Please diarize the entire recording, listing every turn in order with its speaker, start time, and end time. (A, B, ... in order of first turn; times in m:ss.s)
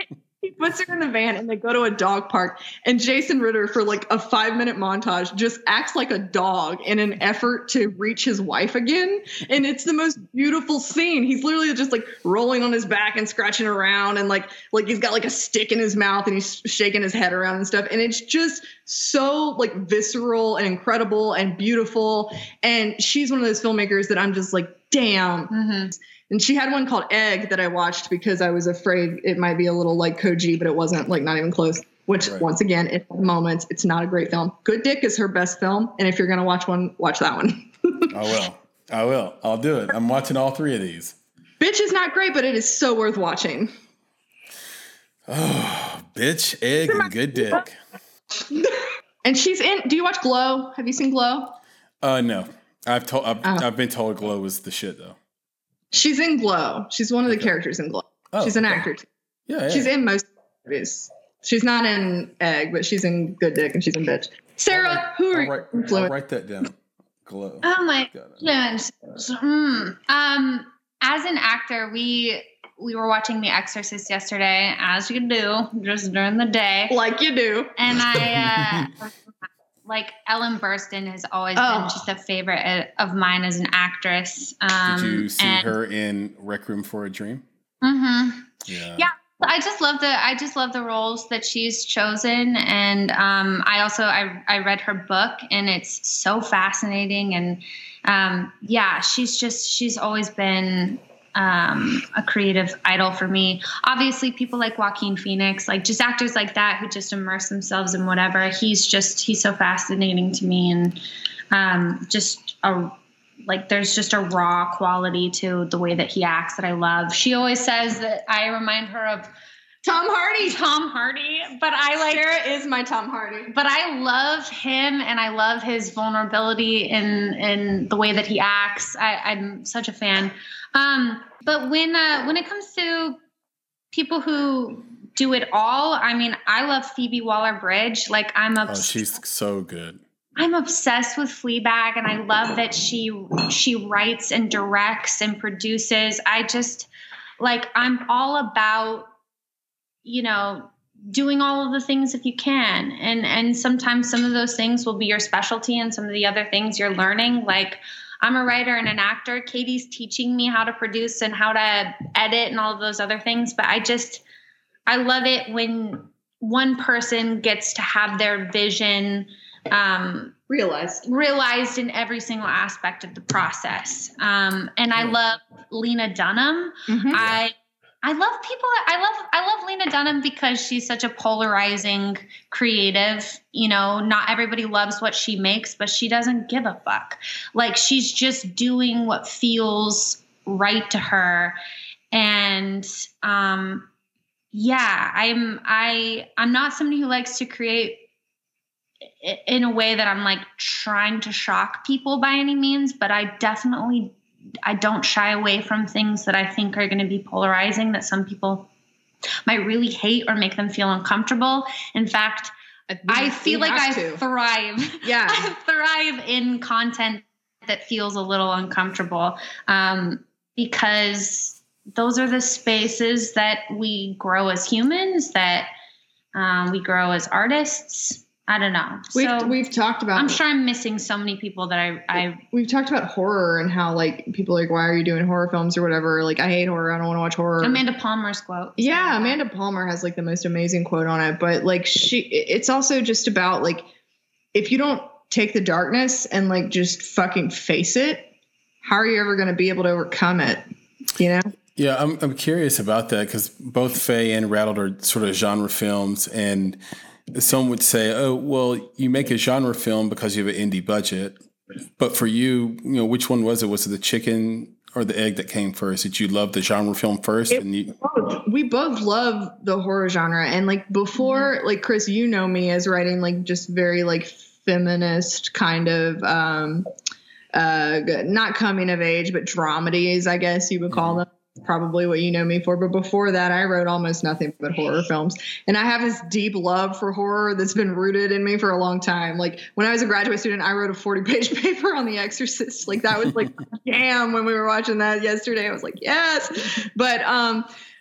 0:00.4-0:25.5 A
0:25.5-0:25.9 B
0:26.3-0:38.1 A
0:32.2-0:32.5 C
0:38.1-0:41.2 C
0:41.6-0:43.7 A
0:45.3-0:47.8 C
0:48.5-0:51.6 A
0:52.0-0:55.2 C
0:55.9-0:59.1 A
0:57.2-0:57.5 C
0:58.3-0:58.8 C
0:59.5-0:59.9 C
0:59.7-1:06.1 A
1:04.7-1:08.4 C
1:07.6-1:17.0 B
1:16.9-1:17.8 A
1:17.8-1:19.1 B
1:18.3-1:18.9 C
1:19.8-1:25.7 B
1:21.6-1:22.0 A
1:24.8-1:27.4 C
1:27.8-1:51.0 B
1:28.6-1:29.1 C
1:51.5-1:53.0 B
1:53.5-1:59.3 B
1:59.8-2:00.6 A
2:00.4-2:02.3 B
2:02.0-2:03.5 A
2:03.5-2:13.2 B
2:13.9-2:19.1 B
2:18.7-2:20.0 C
2:20.4-2:26.9 B
2:27.4-2:29.1 B
2:30.0-2:44.2 B
2:44.9-2:50.3 B
2:50.5-2:51.0 A
2:51.0-3:11.6 B
2:56.9-2:57.2 A
3:12.1-3:13.9 B
3:14.5-3:18.1 B
3:19.2-3:28.7 B
3:29.4-3:32.5 B
3:32.9-3:34.2 A
3:33.1-3:45.7 B
3:35.0-3:35.5 A
3:46.3-3:49.6 B
3:49.1-3:50.4 A
3:50.1-3:52.4 B
3:52.5-3:57.8 A
3:57.6-3:59.4 B
3:58.8-4:03.9 A
4:04.5-4:08.3 A
4:08.8-4:10.6 A
4:11.2-4:11.5 A
4:11.8-4:16.8 C
4:17.3-4:21.4 C
4:22.0-4:27.9 C
4:27.5-4:36.9 A
4:37.5-4:57.7 A
4:40.9-4:41.2 C